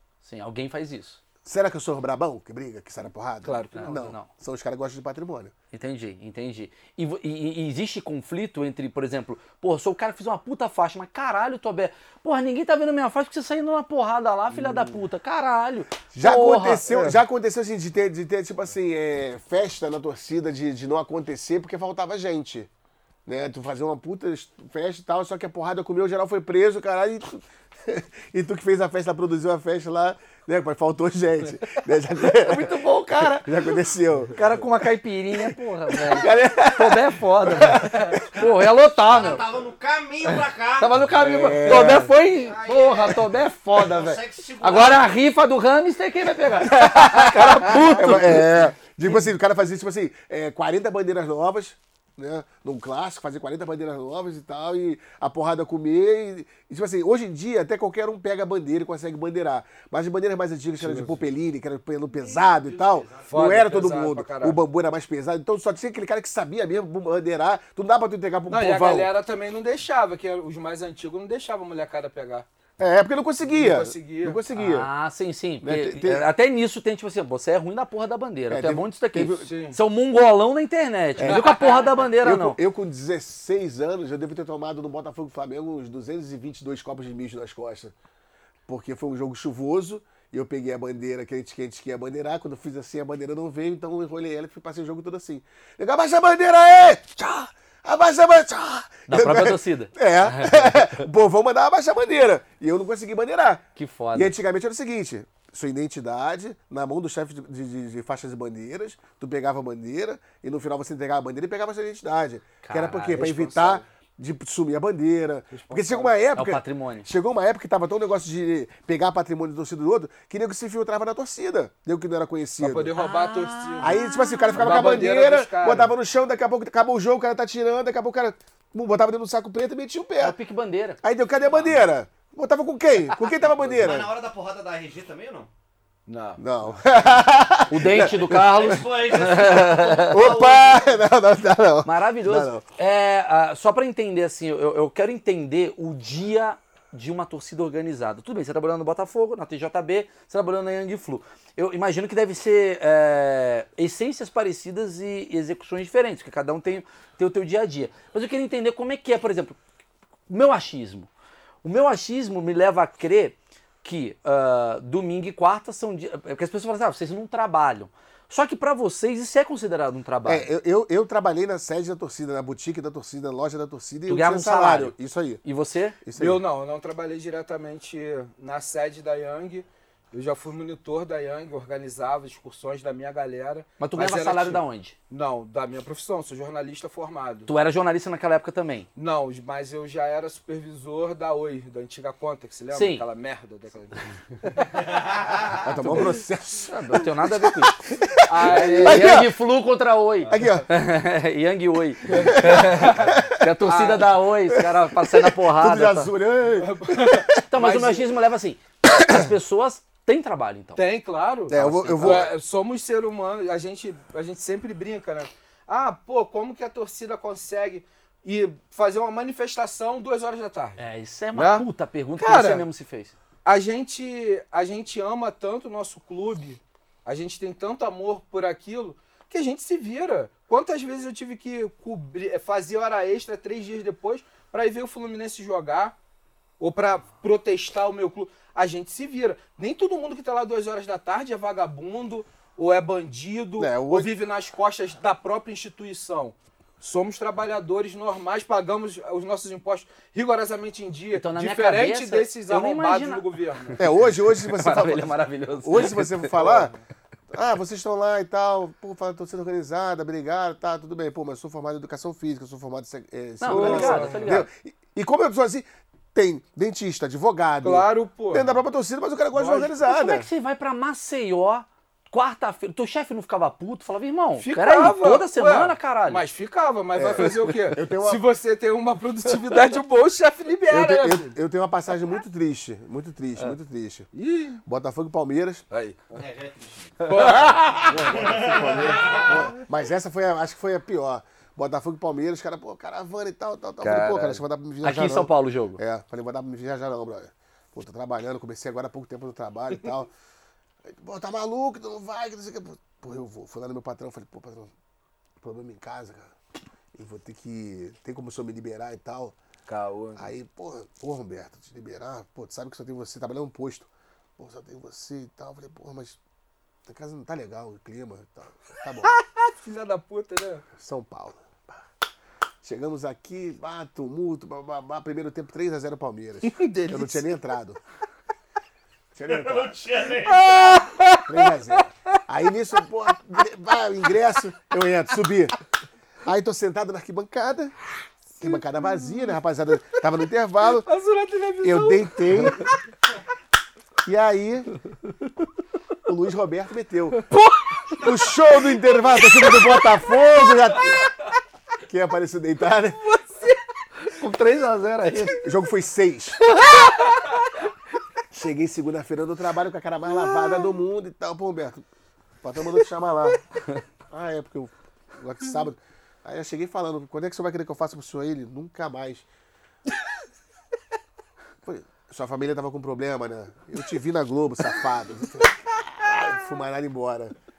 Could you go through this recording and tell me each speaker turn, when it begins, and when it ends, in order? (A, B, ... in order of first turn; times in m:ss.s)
0:00.2-0:01.2 A
0:01.4-0:05.5 B
0:03.4-0:03.9 C
0:03.7-0:04.3 A
0:05.7-0:16.9 A
0:14.5-0:15.0 C
0:16.1-0:22.7 B
0:16.9-0:17.2 C
0:23.2-0:32.8 B
0:32.2-0:33.8 A
0:33.4-0:34.4 B
0:34.4-0:39.4 A
0:35.9-0:38.2 B
0:38.3-0:41.0 D
0:40.2-0:48.5 A
0:41.1-0:42.1 B
0:42.3-0:45.1 D
0:46.7-1:09.1 B
1:00.8-1:01.2 C
1:02.2-1:03.4 D
1:03.3-1:04.6 C
1:08.5-1:12.4 C
1:12.8-1:14.9 B
1:13.4-1:14.4 C
1:14.5-1:22.6 A
1:15.6-1:16.3 B
1:18.5-1:19.5 B
1:19.4-1:19.8 C
1:21.2-1:27.9 B
1:21.2-1:22.0 C
1:28.7-1:43.6 B
1:39.1-1:41.1 A
1:43.8-1:44.4 A
1:44.1-2:02.9 B
1:52.6-1:53.7 A
1:53.2-1:53.8 C
1:55.5-1:56.1 C
1:56.4-1:57.1 A
2:02.6-2:03.9 C
2:02.9-2:05.0 A
2:03.8-2:10.4 B
2:04.5-2:05.9 C
2:10.2-2:11.0 A
2:11.0-2:14.2 B
2:11.4-2:11.8 D
2:13.6-2:15.5 D
2:16.1-2:16.4 C
2:16.4-2:22.6 B
2:17.7-2:20.4 A
2:18.1-2:20.9 D
2:21.8-2:39.6 A
2:40.3-2:41.1 A
2:41.6-2:50.5 A
2:50.2-2:55.4 B
2:54.1-2:56.0 A
2:56.0-2:56.4 B
2:56.2-3:07.5 C
3:03.8-3:05.0 A
3:07.5-3:08.9 A
3:09.0-3:14.7 C
3:12.7-3:13.0 A
3:14.9-3:15.6 D
3:15.6-3:19.3 B
3:15.7-3:17.8 A
3:18.3-3:19.1 C
3:18.4-3:26.1 A
3:20.3-3:20.7 B
3:22.1-3:23.4 B
3:22.1-3:24.1 C
3:24.5-3:27.4 B
3:26.6-3:28.1 C
3:27.5-3:30.8 A
3:30.8-3:40.8 C
3:31.5-3:32.3 B
3:31.5-3:32.3 A
3:40.8-3:43.1 A
3:41.4-3:41.6 C
3:42.2-3:42.6 C
3:43.4-3:55.9 C
3:56.6-4:13.8 C
4:03.6-4:04.1 B
4:11.1-4:16.4 A
4:13.8-4:16.7 B
4:16.3-4:16.8 C
4:17.3-4:30.3 B
4:23.4-4:24.5 A
4:23.5-4:24.4 C
4:27.6-4:28.6 C
4:29.3-4:29.7 C
4:29.9-4:36.2 A
4:34.4-4:41.4 C
4:37.0-4:38.2 B
4:40.7-4:44.1 B
4:44.1-4:44.6 C
4:44.6-4:45.6 B
4:45.7-4:46.2 C
4:46.1-4:47.2 D
4:47.0-4:49.5 C
4:47.2-5:00.1 B
4:48.0-4:49.5 D
4:53.8-4:54.1 C
4:53.9-4:55.8 A
5:00.8-5:04.7 B
5:05.4-5:06.3 B
5:06.9-5:09.4 B
5:09.7-5:10.3 C
5:10.2-5:16.2 B
5:16.9-5:19.2 B
5:19.0-5:20.6 C
5:20.8-5:21.8 B
5:22.6-5:27.8 B
5:26.4-5:27.4 C
5:29.2-5:30.1 B
5:29.3-5:30.8 D
5:30.0-5:31.8 C
5:31.2-5:35.6 B
5:36.2-5:37.7 B
5:38.4-5:40.9 B
5:38.4-5:39.1 C
5:40.8-5:42.8 C
5:41.6-5:42.7 B
5:44.0-5:44.7 B
5:46.0-5:47.2 B
5:48.0-5:51.0 B
5:51.9-5:53.1 B
5:53.1-5:53.6 C
5:54.1-5:55.4 A
5:55.4-5:56.4 B
5:56.9-5:57.3 C
5:58.3-6:01.8 B
6:02.4-6:03.4 B
6:04.1-6:09.2 B
6:11.6-6:17.3 B